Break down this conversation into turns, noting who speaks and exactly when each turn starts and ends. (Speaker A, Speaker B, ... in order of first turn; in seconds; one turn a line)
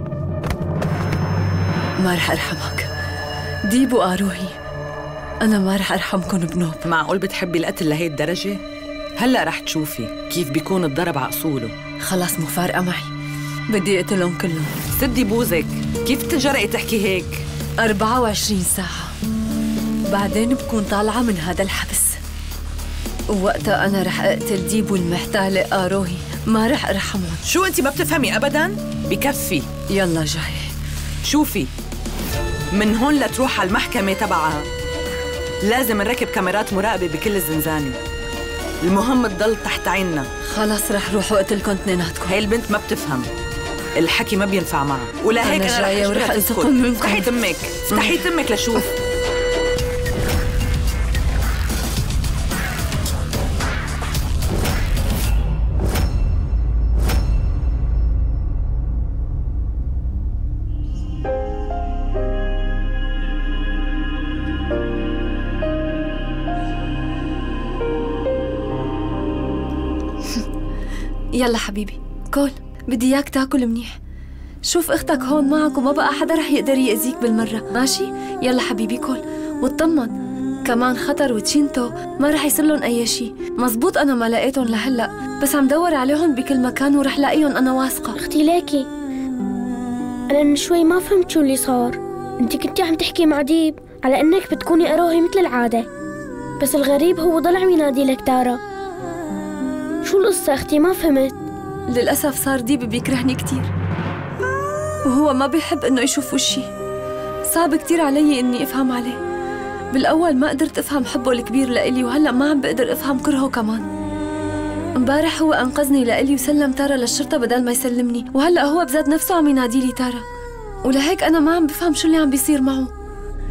Speaker A: 2.0-2.9
Speaker A: 3.7-4.6
Speaker A: 5.4-6.8
Speaker B: 6.8-8.6
Speaker B: 9.2-11.7
Speaker A: 12.0-13.1
Speaker A: 13.7-14.8
Speaker B: 15.0-17.4
Speaker A: 17.8-19.1
Speaker A: 20.1-22.2
Speaker A: 23.3-27.4
Speaker B: 27.5-29.7
Speaker A: 29.9-30.7
Speaker B: 31.3-31.7
Speaker B: 32.7-34.6
Speaker B: 35.7-38.0
Speaker B: 38.8-40.3
Speaker A: 40.4-42.3
Speaker B: 42.3-43.3
Speaker B: 44.0-48.9
Speaker A: 45.4-47.3
Speaker A: 71.4-74.0
Speaker A: 74.7-80.1
Speaker A: 80.7-88.2
Speaker C: 88.2-88.9
Speaker C: 90.3-95.9
Speaker C: 96.6-98.6
Speaker C: 100.0-101.4
Speaker A: 101.9-103.7
Speaker A: 105.1-106.7
Speaker A: 107.5-109.2
Speaker A: 109.9-113.9
Speaker A: 115.0-120.2
Speaker A: 120.8-122.9